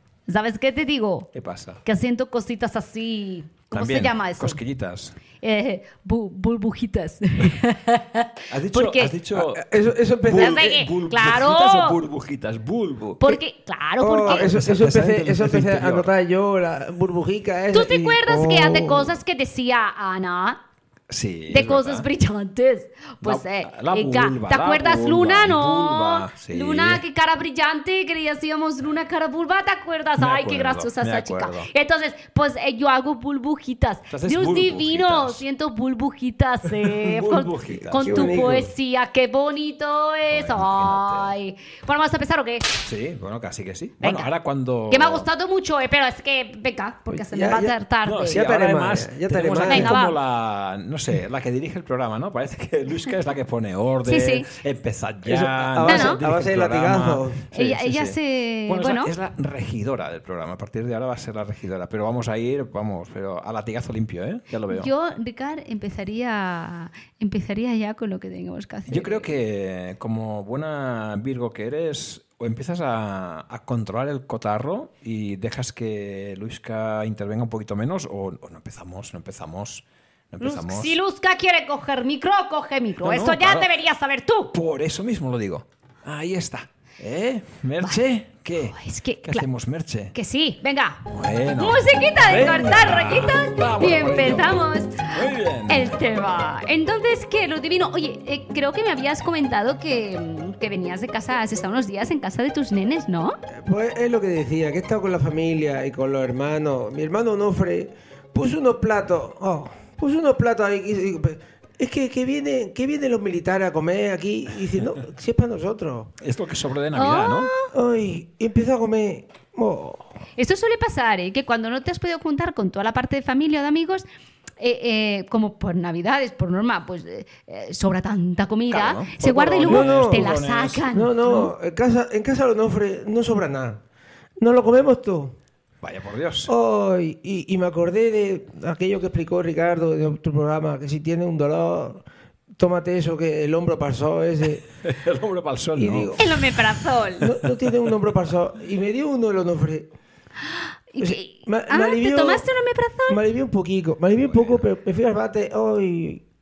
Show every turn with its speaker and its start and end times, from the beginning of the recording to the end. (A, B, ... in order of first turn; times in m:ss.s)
0:00.3-0:01.3 A
0:01.3-0:01.8 B
0:01.8-0:04.6 A
0:03.7-0:05.2 B
0:05.4-0:09.2 A
0:08.5-0:13.4 B
0:09.4-0:10.8 C
0:10.3-0:12.0 A
0:13.2-0:14.5 A
0:14.0-0:19.1 C
0:14.2-0:16.1 B
0:17.7-0:20.6 A
0:21.1-0:22.1 B
0:21.5-0:42.7 A
0:23.2-0:27.0 B
0:30.2-0:31.7 B
0:34.1-0:35.4 B
0:36.7-0:38.6 B
0:37.8-0:38.7 C
0:40.3-0:41.3 B
0:42.8-0:45.3 B
0:44.0-0:44.3 A
0:44.9-0:48.4 A
0:47.1-0:49.9 C
0:48.0-1:04.9 B
0:49.7-0:50.2 A
0:54.0-0:54.5 A
0:55.2-0:57.4 C
0:55.8-0:56.2 A
0:57.5-0:59.1 A
1:04.7-1:09.3 A
1:08.9-1:21.0 B
1:20.4-1:24.5 A
1:23.0-1:23.7 B
1:24.5-1:30.1 B
1:28.6-1:29.4 A
1:30.1-1:31.0 A
1:31.1-1:36.0 B
1:31.6-1:43.4 A
1:43.5-1:56.1 C
1:56.2-1:57.5 B
1:56.9-1:57.7 A
1:57.7-2:00.1 C
2:00.4-2:04.0 A
2:04.6-2:11.5 A
2:08.7-2:10.9 B
2:09.6-2:10.3 C
2:10.9-2:13.8 C
2:14.4-2:15.4 C
2:15.8-2:16.5 B
2:16.5-2:22.0 C
2:22.6-2:24.6 C
2:24.8-2:26.2 B
2:25.8-2:26.2 C
2:26.2-2:27.3 A
2:27.2-2:29.9 C
2:30.9-2:33.2 A
2:31.0-2:32.4 C
2:33.1-2:36.2 C
2:34.2-2:34.6 B